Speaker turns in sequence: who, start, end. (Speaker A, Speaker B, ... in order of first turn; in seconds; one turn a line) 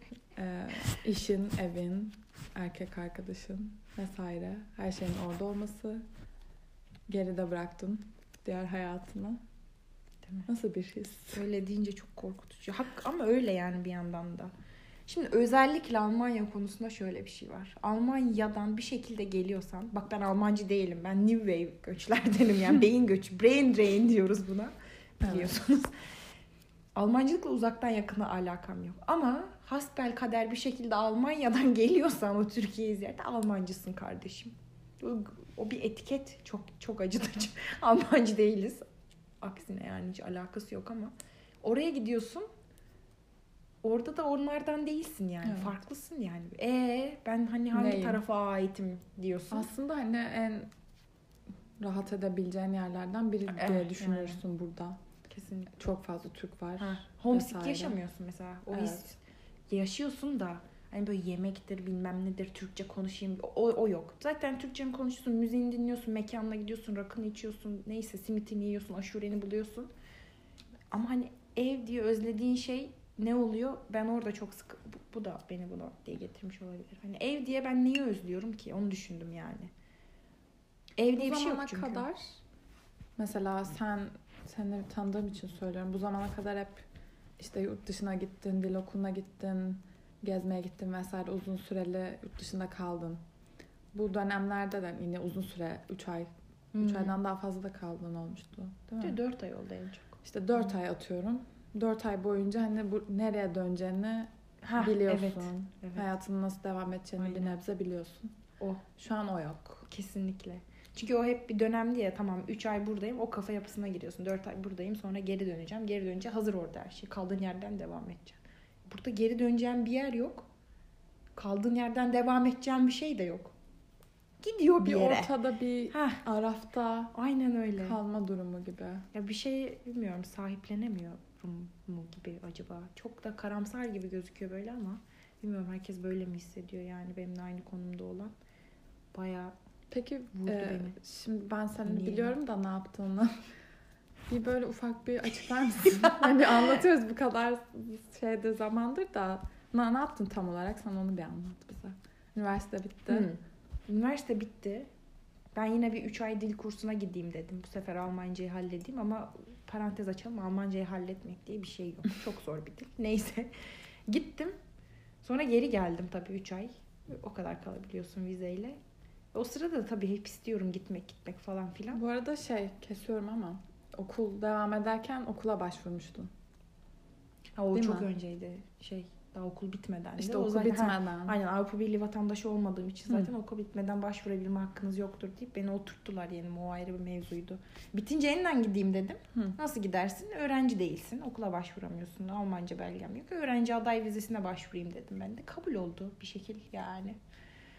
Speaker A: 0.4-6.0
Speaker A: 7.1-9.4
Speaker A: 10.5-11.4
Speaker B: 11.3-14.5
Speaker B: 15.1-25.9
Speaker A: 25.2-25.5
Speaker B: 26.9-38.9
Speaker B: 39.4-42.5
Speaker B: 43.8-49.7
Speaker A: 45.4-45.8
Speaker A: 47.7-48.2
Speaker A: 49.5-50.7
Speaker A: 51.8-55.0
Speaker B: 53.5-54.4
Speaker B: 55.3-55.7
Speaker A: 55.8-58.0
Speaker B: 56.8-69.9
Speaker A: 58.7-59.0
Speaker B: 70.9-79.7
Speaker B: 81.0-82.1
Speaker A: 81.2-82.4
Speaker A: 83.2-86.8
Speaker A: 87.4-93.2
Speaker A: 93.9-99.2
Speaker B: 96.7-97.2
Speaker B: 99.0-100.2
Speaker A: 100.2-108.4
Speaker B: 104.6-106.1
Speaker B: 107.2-107.6
Speaker B: 108.6-108.8
Speaker A: 109.0-109.9
Speaker B: 109.9-120.5
Speaker B: 121.4-123.5
Speaker B: 124.4-125.3
Speaker A: 124.8-127.1
Speaker B: 125.9-126.2
Speaker B: 127.1-128.0
Speaker A: 127.8-129.1
Speaker B: 129.1-138.3
Speaker B: 139.1-139.5
Speaker A: 139.9-143.3
Speaker B: 140.3-141.0
Speaker B: 141.9-142.4
Speaker A: 144.3-153.3
Speaker B: 153.1-154.9
Speaker B: 155.5-163.5
Speaker B: 164.1-164.5
Speaker B: 165.2-168.8
Speaker B: 169.3-172.0
Speaker A: 171.9-176.3
Speaker B: 177.6-197.2
Speaker A: 177.7-178.1
Speaker A: 180.2-181.4